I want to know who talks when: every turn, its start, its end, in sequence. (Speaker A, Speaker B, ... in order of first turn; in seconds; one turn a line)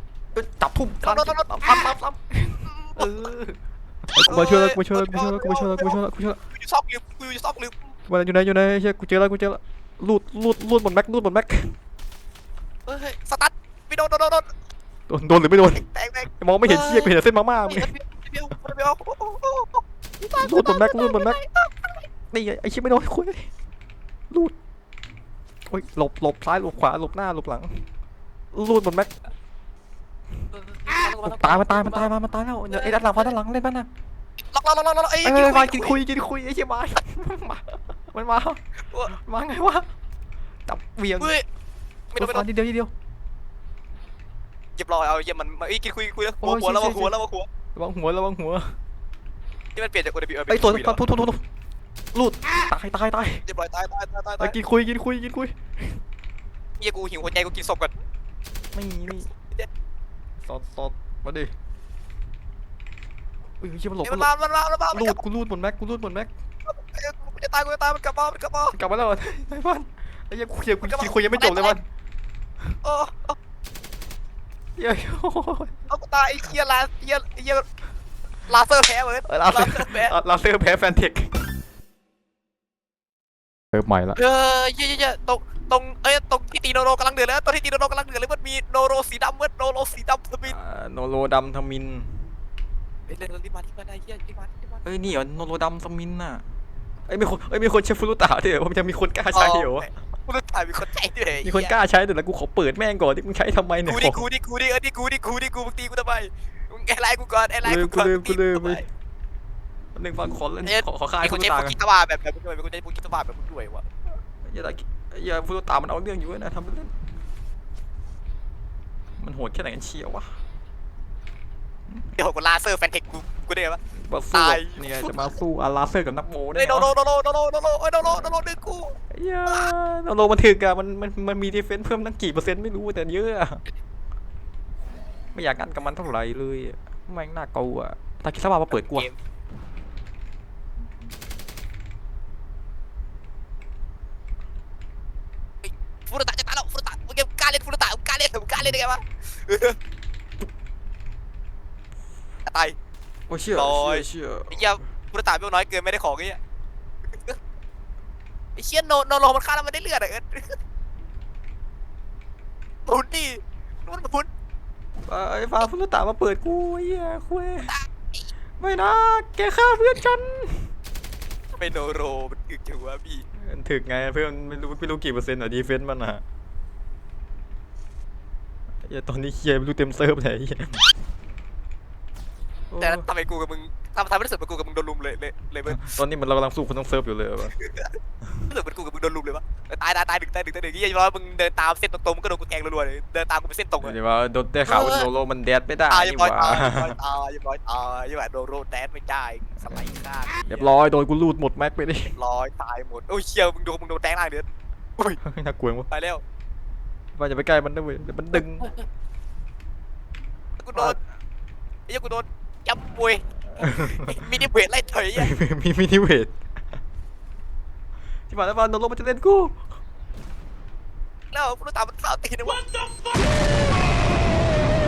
Speaker A: 0.3-3.6
Speaker B: 1.0-1.9
Speaker B: 2.6-3.3
Speaker A: 4.1-6.4
Speaker B: 4.2-7.9
Speaker A: 8.1-11.7
Speaker B: 12.9-14.5
Speaker A: 15.1-17.9
Speaker B: 15.7-22.0
Speaker A: 20.4-21.4
Speaker A: 22.3-23.5
Speaker A: 25.7-27.8
Speaker A: 28.5-29.2
Speaker B: 30.5-32.1
Speaker A: 31.2-33.9
Speaker B: 32.7-33.4
Speaker B: 34.4-36.0
Speaker A: 35.2-39.9
Speaker B: 38.8-39.1
Speaker A: 40.7-41.3
Speaker B: 41.2-41.5
Speaker B: 42.1-42.5
Speaker A: 42.1-42.9
Speaker B: 44.8-47.5
Speaker A: 46.4-47.2
Speaker A: 47.7-48.7
Speaker B: 49.7-51.1
Speaker A: 50.5-51.4
Speaker A: 52.1-53.4
Speaker B: 53.4-54.6
Speaker A: 54.4-56.0
Speaker B: 56.8-57.9
Speaker A: 58.7-59.3
Speaker A: 60.4-61.5
Speaker A: 63.6-64.3
Speaker B: 64.0-65.2
Speaker A: 64.9-66.3
Speaker B: 66.7-68.8
Speaker A: 68.7-71.8
Speaker B: 70.8-71.8
Speaker B: 72.8-73.4
Speaker A: 74.8-75.7
Speaker B: 75.9-77.7
Speaker B: 78.5-80.2
Speaker A: 79.3-81.3
Speaker A: 83.7-84.2
Speaker B: 84.2-90.6
Speaker A: 90.4-92.3
Speaker B: 93.1-95.1
Speaker A: 94.8-96.4
Speaker A: 97.1-99.9
Speaker B: 99.3-101.8
Speaker A: 101.4-104.2
Speaker B: 103.8-108.8
Speaker A: 107.6-108.8
Speaker A: 109.9-111.8
Speaker B: 110.6-113.9
Speaker A: 114.5-116.9
Speaker A: 119.2-120.3
Speaker B: 122.1-123.8
Speaker A: 124.0-126.9
Speaker B: 124.3-125.3
Speaker B: 126.5-129.0
Speaker A: 128.0-128.3
Speaker A: 129.1-133.6
Speaker A: 135.3-139.1
Speaker B: 138.7-139.2
Speaker B: 145.6-149.8
Speaker B: 152.4-152.8
Speaker A: 153.3-154.8
Speaker B: 153.5-156.4
Speaker B: 157.1-157.4
Speaker B: 158.6-160.6
Speaker B: 162.9-164.3
Speaker A: 165.1-167.7
Speaker B: 167.6-168.3
Speaker A: 168.6-170.7
Speaker B: 171.5-173.2
Speaker A: 173.4-176.2
Speaker A: 178.8-180.8
Speaker A: 182.7-183.1
Speaker B: 182.8-185.9
Speaker A: 185.7-187.5
Speaker B: 187.6-194.0
Speaker A: 193.8-196.9
Speaker B: 194.6-195.1
Speaker B: 195.9-200.8
Speaker A: 200.4-202.1
Speaker B: 202.1-204.4
Speaker A: 205.2-205.9
Speaker B: 205.9-206.2
Speaker A: 207.1-208.7
Speaker B: 208.3-208.8
Speaker B: 210.6-211.0
Speaker B: 211.9-215.3
Speaker A: 213.5-214.3
Speaker A: 215.1-216.3
Speaker A: 218.3-219.6
Speaker B: 221.3-222.6